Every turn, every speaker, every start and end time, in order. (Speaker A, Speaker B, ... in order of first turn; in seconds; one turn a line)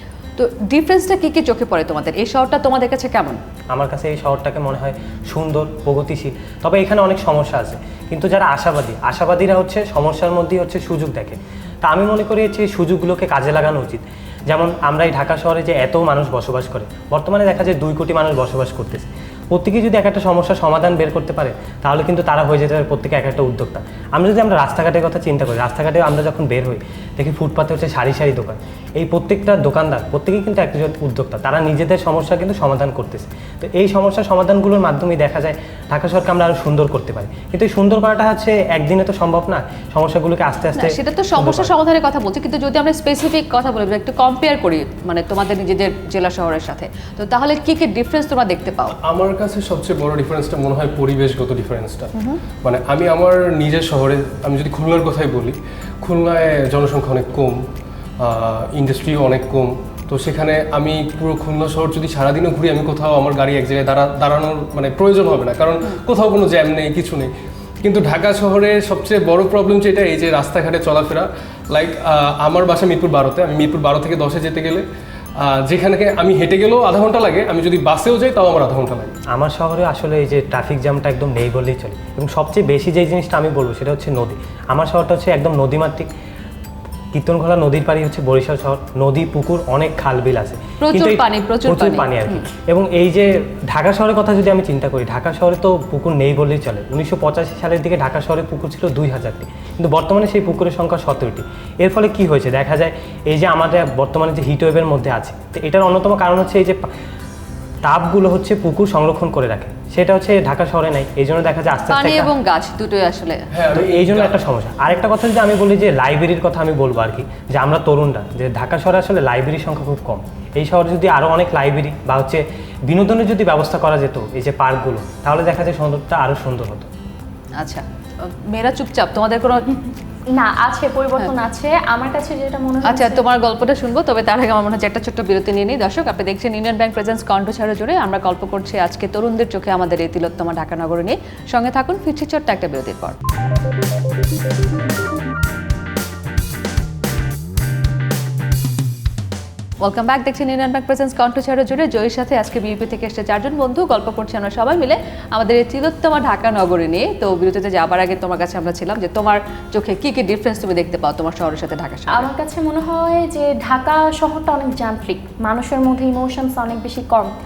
Speaker A: 0.4-3.4
Speaker B: 3.7-41.7
Speaker A: 40.8-49.0
Speaker C: 49.0-52.1
Speaker A: 52.1-52.4
Speaker C: 52.6-57.6
Speaker C: 58.2-67.3
Speaker C: 67.8-74.8
Speaker C: 75.4-79.1
Speaker B: 79.3-86.1
Speaker B: 87.1-106.8
Speaker A: 90.8-92.4
Speaker B: 107.8-112.3
Speaker A: 111.9-113.5
Speaker C: 113.5-114.4
Speaker B: 113.7-126.9
Speaker A: 127.6-129.8
Speaker D: 130.3-133.2
Speaker A: 132.8-143.2
Speaker A: 149.8-162.3
Speaker D: 162.1-167.3